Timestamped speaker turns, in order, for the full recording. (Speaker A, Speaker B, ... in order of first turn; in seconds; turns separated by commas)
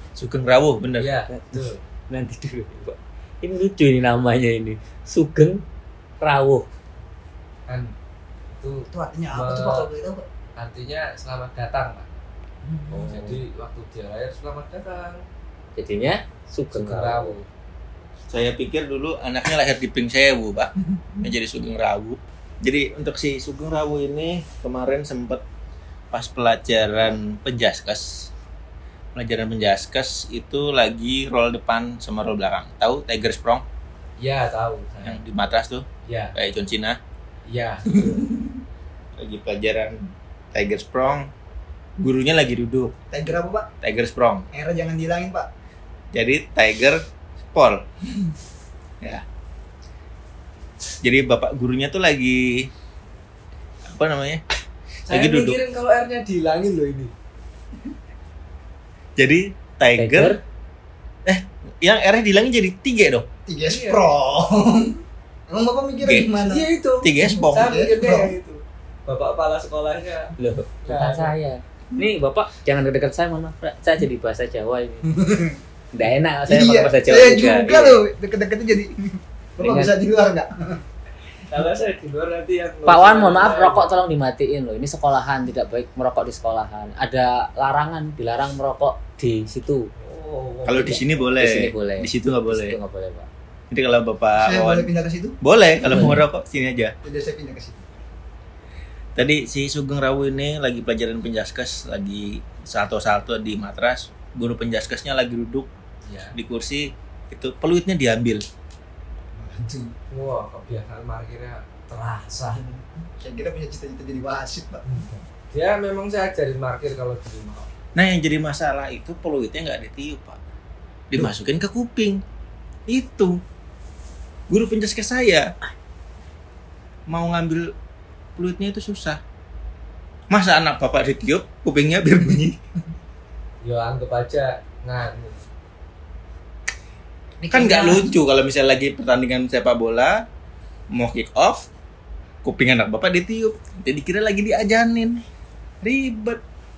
Speaker A: 0.2-1.1, Speaker B: 1.0-1.8, Speaker C: 1.3-5.6, Speaker C: 6.2-6.7, Speaker B: 7.7-7.9, Speaker B: 8.6-9.9, Speaker D: 8.9-10.3, Speaker B: 10.6-12.1, Speaker D: 12.6-12.9, Speaker C: 12.9-13.4, Speaker B: 12.9-15.2, Speaker C: 15.8-17.4, Speaker B: 16.7-17.5, Speaker A: 18.3-25.4, Speaker A: 26.1-28.3, Speaker A: 29.1-33.6, Speaker B: 34.2-35.2, Speaker A: 35.0-37.0, Speaker B: 36.1-36.4, Speaker B: 37.5-38.2, Speaker D: 37.9-38.5, Speaker A: 39.2-41.3, Speaker A: 42.0-42.9, Speaker D: 43.1-43.7, Speaker A: 43.8-44.5, Speaker D: 44.5-45.5, Speaker A: 46.1-47.0, Speaker A: 47.5-47.9, Speaker A: 51.0-52.7, Speaker A: 53.9-54.4, Speaker B: 55.1-57.1, Speaker A: 55.1-55.6, Speaker A: 59.2-60.4, Speaker C: 60.0-60.4, Speaker A: 61.3-63.3, Speaker D: 63.5-65.0, Speaker B: 63.7-64.1, Speaker D: 65.5-66.7, Speaker A: 66.0-66.3, Speaker B: 66.4-70.3, Speaker A: 67.0-67.8, Speaker D: 67.2-68.3, Speaker C: 70.4-75.1, Speaker B: 70.8-71.3, Speaker D: 75.1-75.6, Speaker C: 75.9-78.0, Speaker D: 76.5-80.8, Speaker C: 79.6-79.9, Speaker B: 81.5-83.9, Speaker C: 82.9-89.9, Speaker B: 90.0-91.3, Speaker A: 90.7-92.8, Speaker C: 91.4-93.3, Speaker A: 93.7-94.9, Speaker D: 94.4-95.4, Speaker A: 95.4-96.9, Speaker C: 95.8-96.2, Speaker D: 97.0-97.9, Speaker A: 99.2-105.7, Speaker B: 106.0-106.3, Speaker A: 106.3-108.4, Speaker D: 109.4-110.0, Speaker B: 110.1-112.6, Speaker D: 112.5-114.8, Speaker B: 114.8-117.7, Speaker A: 118.0-120.4, Speaker A: 121.1-122.2, Speaker A: 122.9-123.4, Speaker A: 124.5-125.5, Speaker A: 127.1-127.7, Speaker A: 128.4-129.2, Speaker A: 130.3-132.6, Speaker B: 133.6-135.4, Speaker D: 137.4-138.1, Speaker A: 137.5-140.2, Speaker A: 140.9-141.7, Speaker A: 142.4-145.2, Speaker A: 145.8-146.4